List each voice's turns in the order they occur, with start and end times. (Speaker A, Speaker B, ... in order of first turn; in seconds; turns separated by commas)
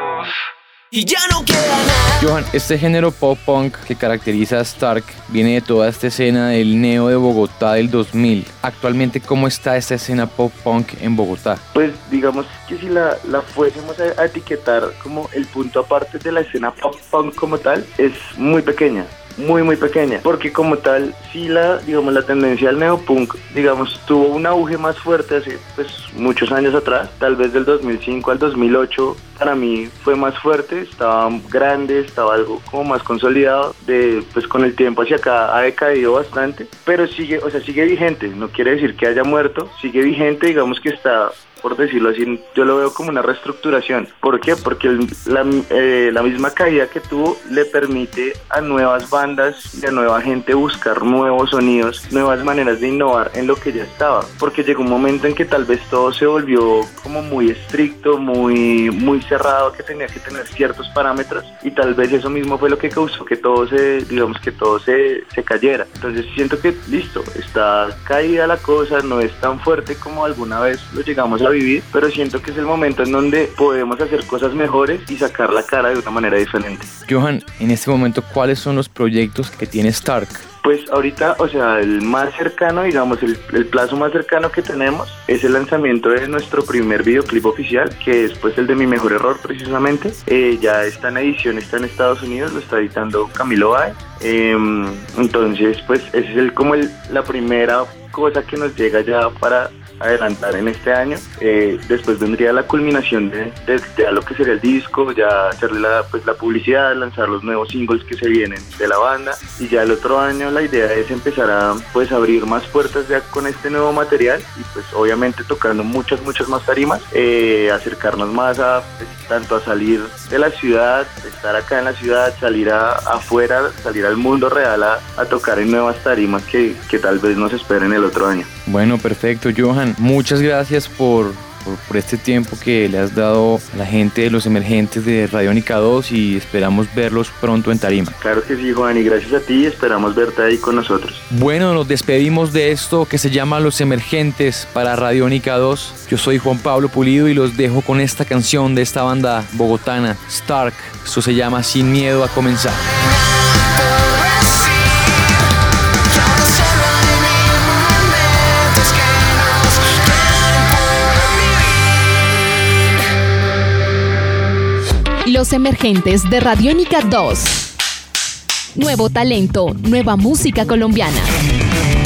Speaker A: 0.9-2.2, Speaker B: 2.2-11.6, Speaker C: 11.7-76.9, Speaker B: 77.1-80.4, Speaker C: 80.6-128.5, Speaker B: 128.7-138.1, Speaker C: 138.2-141.2, Speaker B: 141.3-153.0, Speaker A: 153.5-155.4, Speaker A: 156.1-161.8, Speaker D: 165.2-167.6, Speaker D: 168.7-171.3